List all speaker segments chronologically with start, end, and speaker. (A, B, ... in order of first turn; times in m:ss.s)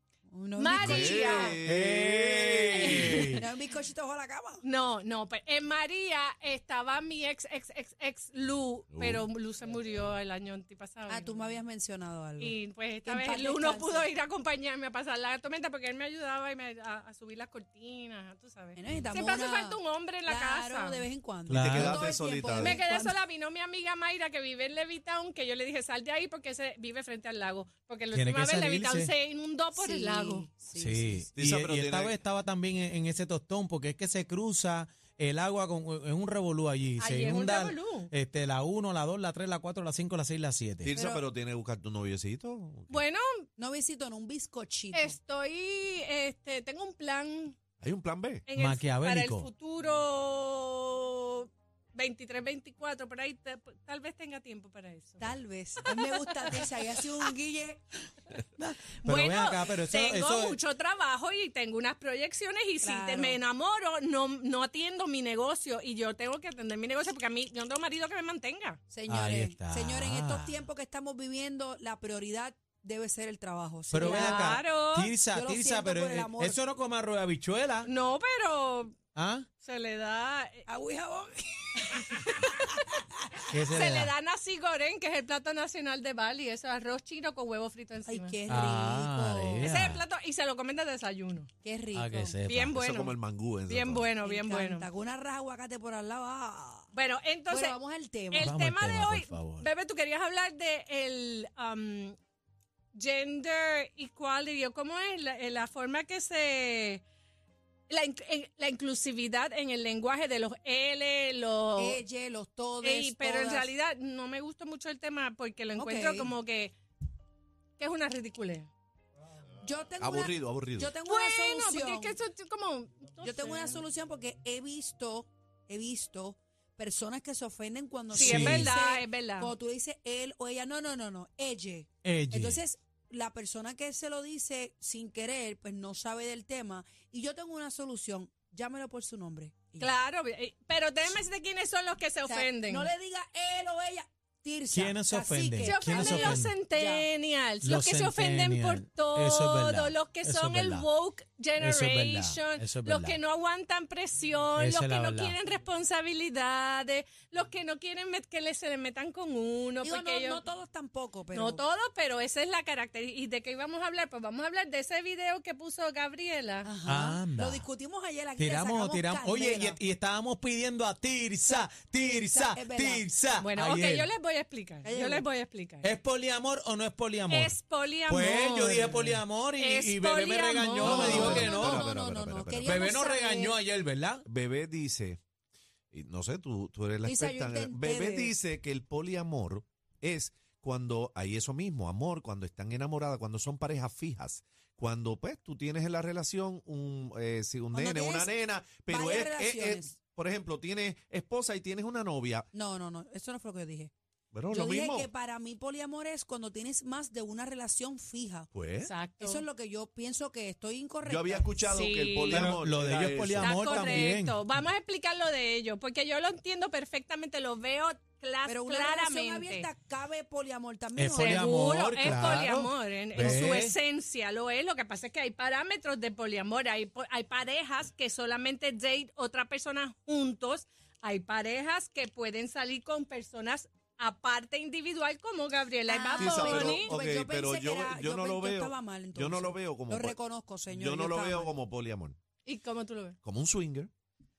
0:00.3-0:01.6 A
0:00.6-0:01.6 B
0:00.8-0:03.3 C
0:01.6-0:03.4 D
0:02.8-0:03.4 B
0:03.3-0:04.6 A
0:04.6-0:11.3 B
0:08.9-0:09.2 C
0:11.1-0:14.1 A
0:12.4-0:21.0 B
0:18.8-0:23.2 A
0:21.5-0:22.0 D
0:21.5-0:22.8 C
0:22.6-0:30.5 B
0:28.1-0:29.1 D
0:29.8-0:31.3 A
0:30.8-0:40.9 D
0:31.4-0:32.2 C
0:37.0-0:38.1 B
0:40.8-0:43.0 C
0:40.9-0:41.2 A
0:42.9-0:43.4 B
0:43.6-0:45.2 A
0:44.9-0:47.6 B
0:47.8-0:48.4 C
0:48.4-0:55.3 B
0:48.6-0:49.5 D
0:55.2-0:57.8 A
0:55.8-0:56.8 B
0:58.6-1:00.6 D
0:59.0-1:08.8 B
1:02.8-1:03.4 A
1:08.9-1:14.6 A
1:09.1-1:10.6 D
1:13.9-1:17.9 D
1:14.0-1:15.1 B
1:15.3-1:16.6 A
1:17.8-1:19.0 B
1:19.2-1:19.4 D
1:19.6-1:20.7 B
1:20.7-1:23.0 A
1:21.8-1:22.9 B
1:23.5-1:28.4 B
1:23.5-1:24.1 D
1:28.0-1:29.8 A
1:28.5-1:30.0 D
1:29.6-1:31.5 B
1:31.6-1:32.4 A
1:31.9-1:32.8 D
1:32.4-1:33.2 B
1:32.7-1:34.1 C
1:33.7-1:34.9 B
1:34.2-1:36.9 A
1:36.9-1:37.8 B
1:37.5-1:38.5 A
1:38.3-1:42.2 B
1:38.4-1:39.7 D
1:42.9-1:47.0 B
1:47.9-1:52.0 B
1:51.8-1:53.7 A
1:52.8-1:56.7 B
1:55.8-1:56.3 A
1:57.8-1:58.7 B
1:59.6-2:02.1 A
2:00.0-2:00.9 C
2:01.0-2:03.8 B
2:03.2-2:19.9 A
2:08.1-2:08.7 D
2:08.1-2:09.5 B
2:12.0-2:12.6 D
2:19.8-2:22.9 B
2:22.3-2:27.0 A
2:24.7-2:26.5 D
2:25.6-2:40.4 B
2:27.6-2:30.9 D
2:31.6-2:33.2 D
2:34.6-2:35.3 D
2:39.8-2:41.6 A
2:41.3-2:46.7 B
2:46.6-2:49.8 A
2:46.8-2:47.6 D
2:48.4-2:54.1 D
2:51.4-2:53.1 A
2:53.4-2:55.9 B
2:54.8-2:55.2 A
2:55.8-2:57.6 D
2:57.3-3:01.5 B
2:58.1-3:01.8 D
3:00.8-3:03.6 A
3:00.8-3:02.8 C
3:02.6-3:04.2 D
3:04.2-3:05.2 C
3:05.9-3:22.5 C
3:07.0-3:08.3 A
3:17.7-3:18.3 A
3:18.9-3:19.9 A
3:22.5-3:23.9 A
3:24.3-3:25.1 C
3:24.5-3:28.5 A
3:28.5-3:28.9 C
3:28.8-3:29.4 B
3:29.2-3:31.6 A
3:31.0-3:34.1 C
3:31.7-3:32.6 B
3:32.3-3:34.5 D
3:33.4-3:39.7 B
3:38.4-3:42.3 A
3:41.0-3:43.7 D
3:41.1-3:56.9 B
3:43.2-3:43.6 A
3:55.9-4:01.5 A
3:56.2-4:00.2 C
4:00.7-4:02.2 C
4:02.4-4:03.2 B
4:03.2-4:03.9 C